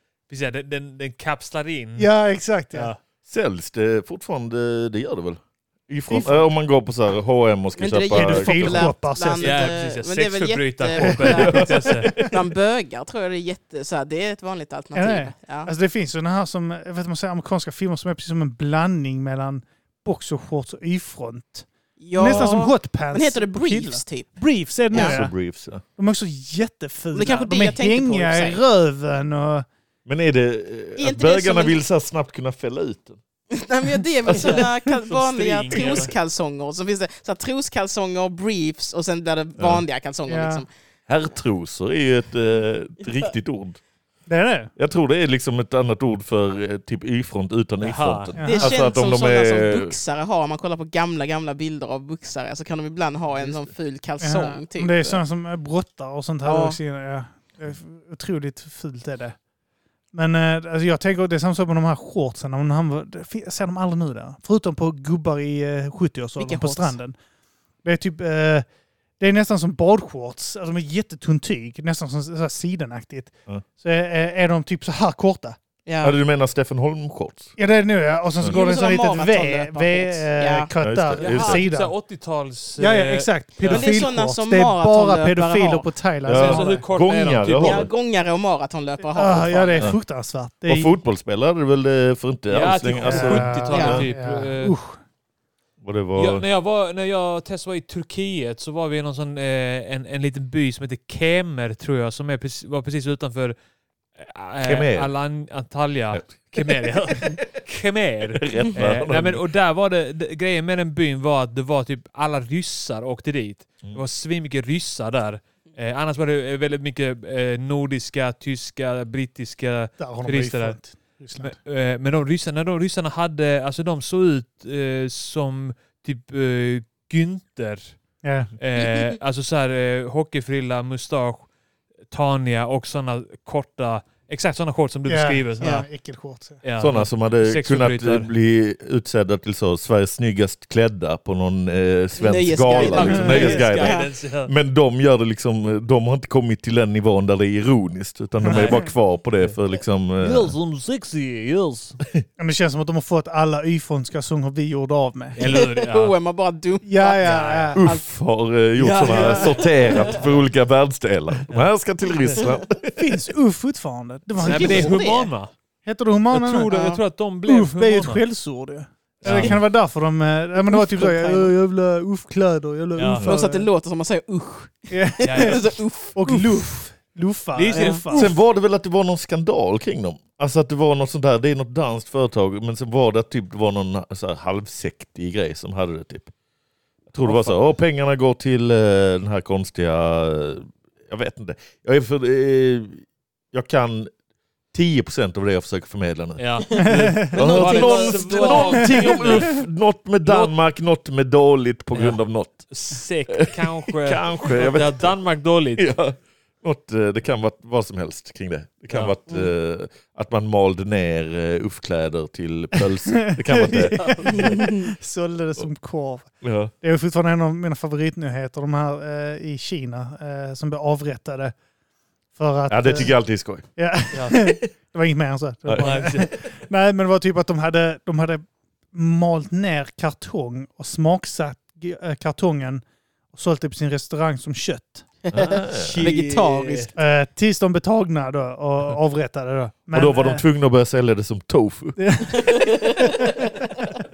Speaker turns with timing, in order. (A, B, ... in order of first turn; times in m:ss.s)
0:00.3-0:02.1 A
0:02.0-0:02.9 B
0:02.7-0:03.0 A
0:03.3-0:08.9 C
0:06.1-0:06.5 B
0:07.8-0:15.7 D
0:08.1-0:09.8 B
0:09.4-0:12.1 A
0:11.2-0:12.3 B
0:11.3-0:12.4 C
0:14.9-0:25.3 B
0:22.0-0:24.3 D
0:24.9-0:25.2 D
0:24.9-0:25.8 C
0:26.0-0:29.7 B
0:27.1-0:28.6 D
0:30.1-0:33.2 C
0:31.0-0:31.8 D
0:33.5-0:40.7 D
0:34.3-0:34.6 C
0:34.4-0:36.1 A
0:39.6-0:39.8 C
0:40.3-0:40.6 B
0:41.1-0:43.8 C
0:44.3-0:44.7 B
0:44.8-0:50.0 C
0:47.8-0:48.3 A
0:48.4-0:48.8 B
0:48.4-0:55.2 D
0:54.2-0:59.4 B
0:56.4-0:56.8 D
1:00.1-1:07.2 B
1:06.4-1:07.0 D
1:07.8-1:08.7 B
1:09.2-1:15.6 B
1:15.9-1:16.2 D
1:16.0-1:17.5 C
1:17.6-1:21.9 B
1:18.4-1:20.7 D
1:20.8-1:21.7 C
1:21.2-1:23.9 A
1:22.8-1:26.8 B
1:23.6-1:25.9 D
1:26.3-1:27.9 C
1:26.3-1:27.9 A
1:27.6-1:29.9 D
1:29.1-1:30.9 B
1:30.7-1:34.1 C
1:32.5-1:34.8 A
1:33.0-1:35.0 B
1:33.7-1:34.1 D
1:35.8-1:36.4 C
1:36.2-1:43.6 A
1:44.2-2:00.8 A
1:44.6-1:45.1 C
1:46.1-1:47.1 C
1:48.4-1:49.4 C
2:00.0-2:01.6 B
2:01.4-2:08.0 A
2:08.2-2:08.5 B
2:08.6-2:11.5 A
2:08.8-2:09.1 D
2:12.1-2:15.9 A
2:15.1-2:16.6 B
2:15.6-2:15.9 D
2:16.6-2:18.3 A
2:16.8-2:30.5 C
2:22.2-2:24.1 D
2:22.7-2:24.5 A
2:28.4-2:29.6 A
2:28.4-2:28.7 B
2:30.2-2:32.0 A
2:32.4-2:35.4 B
2:35.4-2:36.2 A
2:35.4-2:38.0 D
2:36.8-2:37.8 B
2:37.2-2:37.8 A
2:37.8-2:43.1 C
2:38.8-2:40.4 A
2:39.0-2:39.3 B
2:39.9-2:40.2 D
2:43.0-2:45.0 B
2:44.4-2:45.3 D
2:44.4-2:45.5 A
2:45.8-2:53.7 B
2:46.3-2:48.2 A
2:49.2-2:49.6 C
2:49.2-2:49.6 A
2:50.7-2:51.5 D
2:53.0-2:53.3 A
2:53.2-2:56.6 D
2:54.9-2:58.4 B
2:55.2-2:55.7 A
2:57.6-2:58.3 A
2:57.7-2:58.0 D
2:58.1-3:06.3 C
3:07.1-3:14.1 C
3:07.2-3:07.5 A
3:14.7-3:22.7 C
3:16.4-3:19.7 A
3:16.8-3:17.4 B
3:17.4-3:18.7 D
3:20.3-3:20.5 A
3:21.9-3:25.8 A
3:23.3-3:25.2 C
3:25.8-3:34.6 C
3:28.9-3:29.2 A
3:33.1-3:41.5 B
3:34.0-3:34.6 A
3:34.3-3:34.9 D
3:36.4-3:36.7 C
3:42.4-3:43.2 B
3:42.7-3:43.7 C
3:43.8-3:55.1 B
3:44.1-3:44.5 A
3:45.7-3:46.3 C
3:45.8-3:46.3 A
3:55.3-3:56.9 D
3:55.3-3:56.1 C
3:55.7-3:56.9 A
3:57.0-4:00.4 B
3:59.9-4:02.5 C
4:02.0-4:03.6 B
4:02.4-4:03.2 D